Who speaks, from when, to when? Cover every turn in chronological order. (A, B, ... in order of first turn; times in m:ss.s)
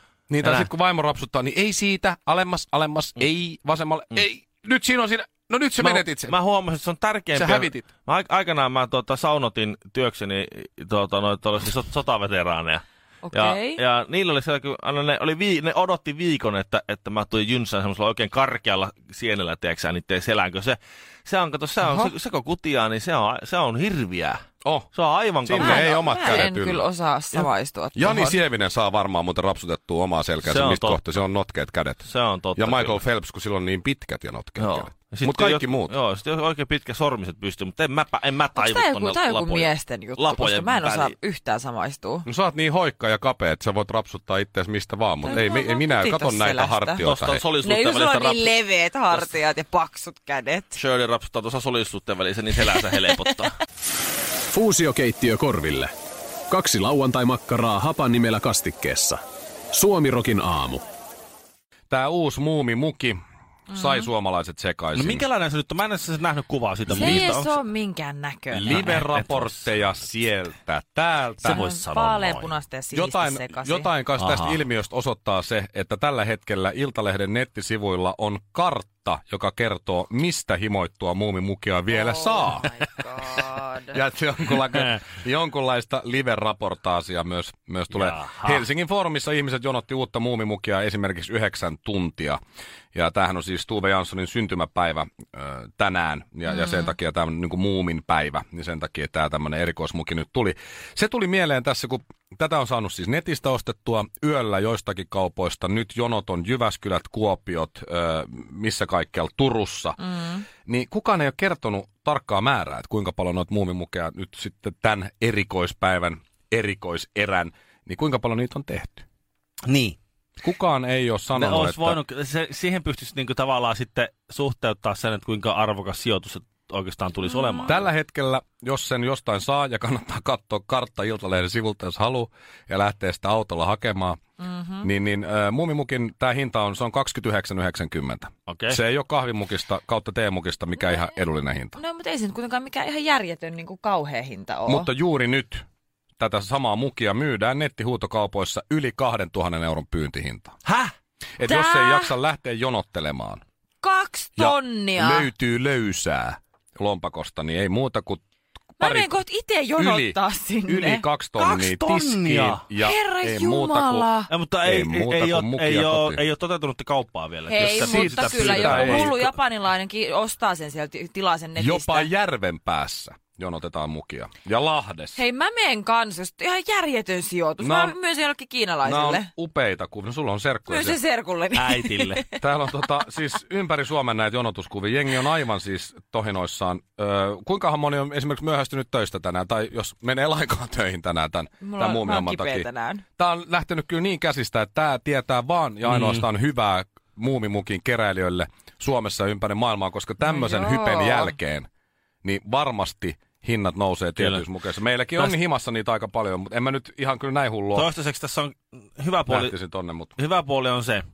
0:00.3-0:06.4 A
0:00.4-0:00.7 B
0:05.8-0:24.4 B
0:07.4-0:07.9 A
0:13.2-0:13.8 C
0:21.8-0:22.1 C
0:24.6-0:24.9 A
0:24.9-0:26.0 B
0:25.4-0:32.0 A
0:25.6-0:28.4 C
0:30.4-0:31.2 B
0:32.0-0:33.0 B
0:32.6-0:36.0 A
0:34.6-0:41.2 B
0:38.6-0:42.3 C
0:42.3-0:47.4 A
0:45.2-0:47.0 C
0:47.0-0:48.6 B
0:47.6-0:50.8 C
0:50.8-0:53.5 B
0:54.5-0:55.9 D
0:56.5-0:59.2 D
0:59.7-1:00.8 D
1:01.9-1:03.2 A
1:03.7-1:05.3 A
1:03.7-1:04.1 C
1:05.0-1:07.6 B
1:06.9-1:07.3 A
1:06.9-1:09.0 C
1:08.5-1:11.6 A
1:08.7-1:10.0 B
1:11.4-1:12.5 B
1:11.4-1:13.9 C
1:12.9-1:22.8 A
1:14.2-1:14.6 B
1:21.9-1:24.0 C
1:23.9-1:32.4 A
1:27.9-1:28.6 B
1:32.9-1:50.0 A
1:36.5-1:36.9 C
1:50.1-1:50.4 C
1:50.6-1:59.0 A
1:59.7-2:00.0 B
2:00.4-2:02.0 A
2:01.3-2:07.8 B
2:07.3-2:07.7 C
2:07.7-2:14.2 A
2:14.4-2:14.9 C
2:14.8-2:21.8 A
2:18.5-2:18.8 B
2:20.8-2:21.1 C
2:21.8-2:24.9 C
2:24.7-2:25.6 A
2:26.2-2:30.6 A
2:31.4-2:33.4 A
2:31.4-2:32.1 C
2:33.8-2:35.3 C
2:34.4-2:38.2 A
2:38.8-2:39.2 A
2:38.8-2:41.0 C
2:39.8-2:44.1 A
2:41.4-2:42.6 B
2:42.8-2:44.3 C
2:44.3-2:49.3 B
2:44.6-2:46.2 A
2:47.5-2:52.1 C
2:47.6-2:49.1 A
2:51.6-2:55.2 A
2:55.2-2:59.3 C
2:57.6-2:58.0 A
2:58.8-3:01.0 A
3:00.7-3:02.4 C
3:01.5-3:02.2 B
3:02.4-3:12.7 A
3:11.6-3:13.0 C
3:13.2-3:21.7 A
3:15.9-3:16.3 B
3:20.2-3:21.4 C
3:22.2-3:27.9 A
3:24.2-3:24.4 B
3:27.8-3:29.6 B
3:29.3-3:30.2 A
3:30.2-3:31.0 B